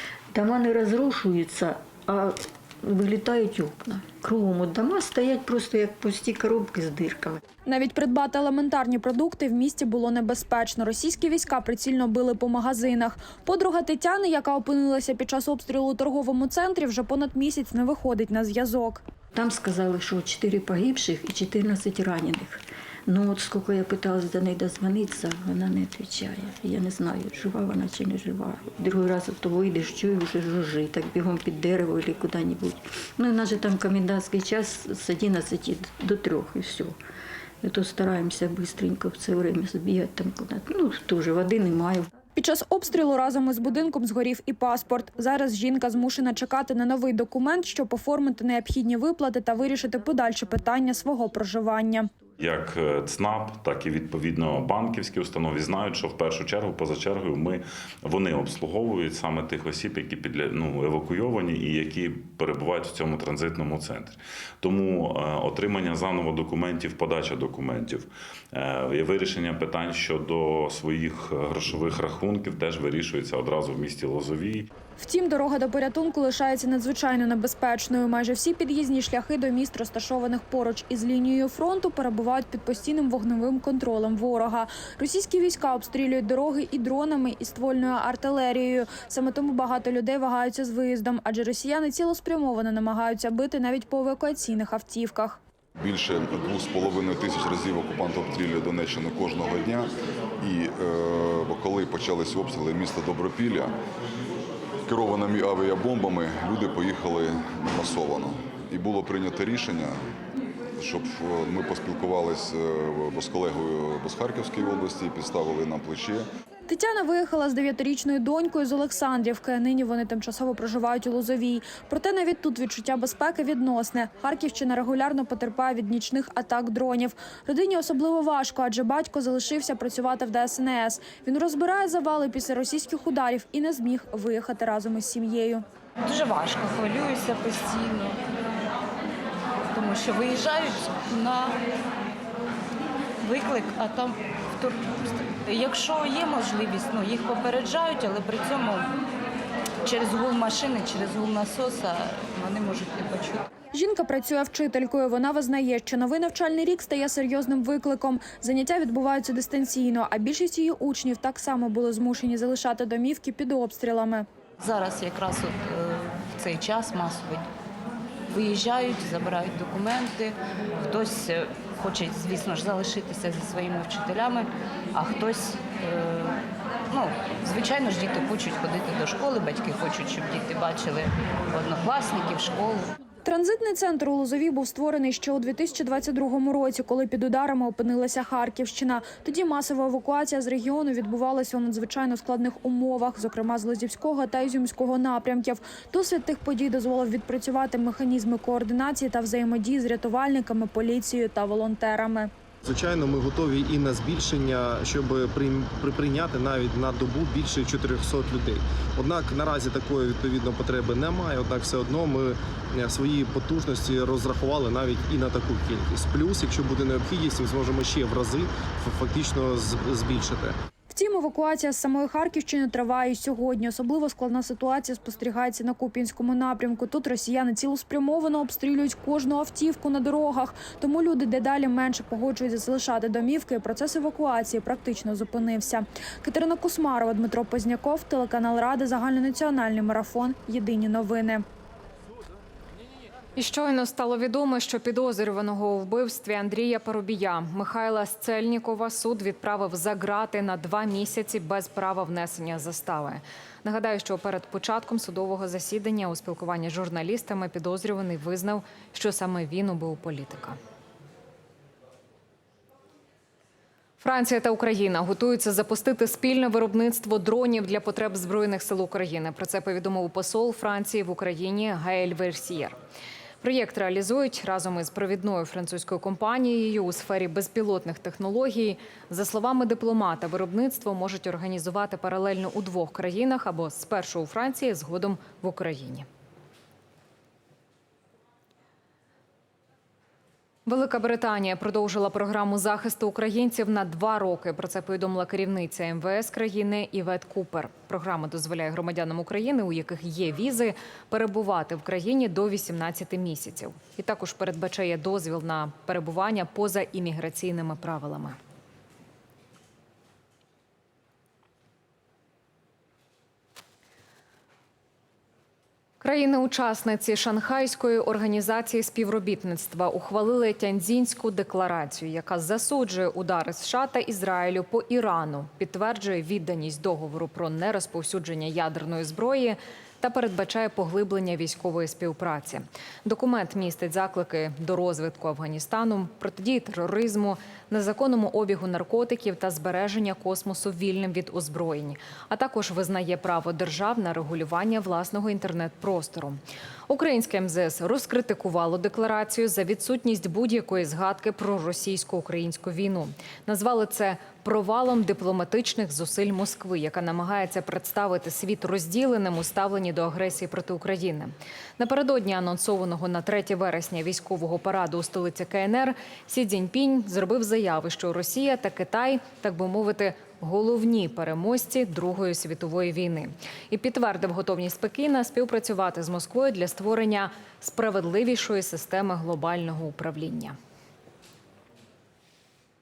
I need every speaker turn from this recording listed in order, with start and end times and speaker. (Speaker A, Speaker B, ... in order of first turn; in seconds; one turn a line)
Speaker A: 0.3-7.4
Speaker B: 7.7-19.0
Speaker A: 19.3-36.9
Speaker A: 37.6-42.1
Speaker B: 42.4-52.1
Speaker C: 52.4-74.7
Speaker B: 75.0-95.4
Speaker D: 95.8-99.9
Speaker D: 100.4-103.7
Speaker D: 104.9-110.0
Speaker D: 110.8-116.3
Speaker B: 116.7-135.6
Speaker E: 136.0-138.2
Speaker E: 139.6-141.6
Speaker E: 143.2-148.9
Speaker E: 149.8-153.4
Speaker B: 153.7-164.3
Speaker E: 164.6-167.5
Speaker E: 168.3-176.4
Speaker E: 176.9-182.9
Speaker B: 183.2-202.3
Speaker F: 202.6-220.6
Speaker B: 220.9-241.4
Speaker G: 243.3-260.6
Speaker G: 264.0-272.8
Speaker G: 273.4-286.1
Speaker G: 290.6-308.4
Speaker G: 316.0-380.5